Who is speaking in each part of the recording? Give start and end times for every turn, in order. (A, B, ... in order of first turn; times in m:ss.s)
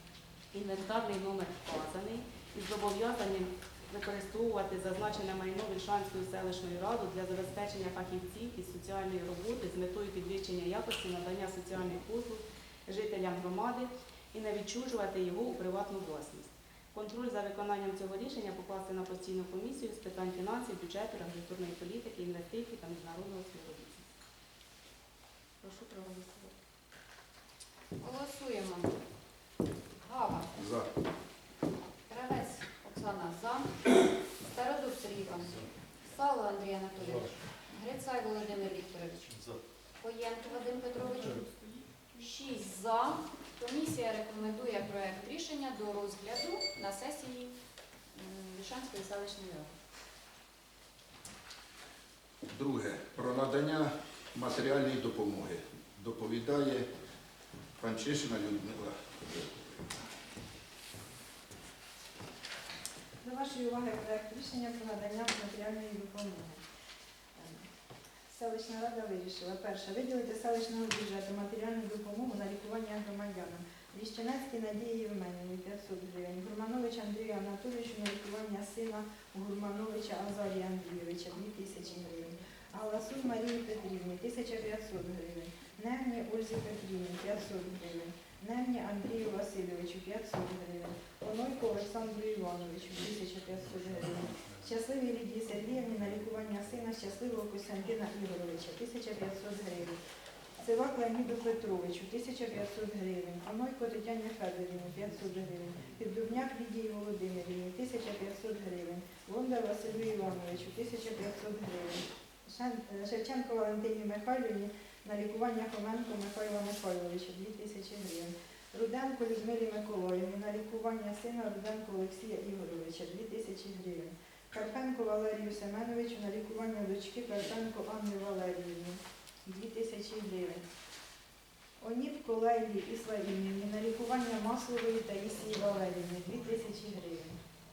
0:00.5-0:24.0 A
0:25.6-0:26.5 A
0:28.0-0:28.9 B
0:30.0-0:30.5 B
0:30.6-0:30.9 C
0:32.1-0:33.8 B
0:34.4-0:39.4 B
0:40.0-0:41.5 B
0:42.2-0:47.5 B
0:48.1-0:49.7 B
0:52.5-0:56.9 C
0:57.8-1:00.0 C
1:03.2-1:06.6 D
1:07.4-1:07.7 D
1:08.3-1:40.0 D
1:40.6-2:10.6 D
2:11.8-2:17.4 D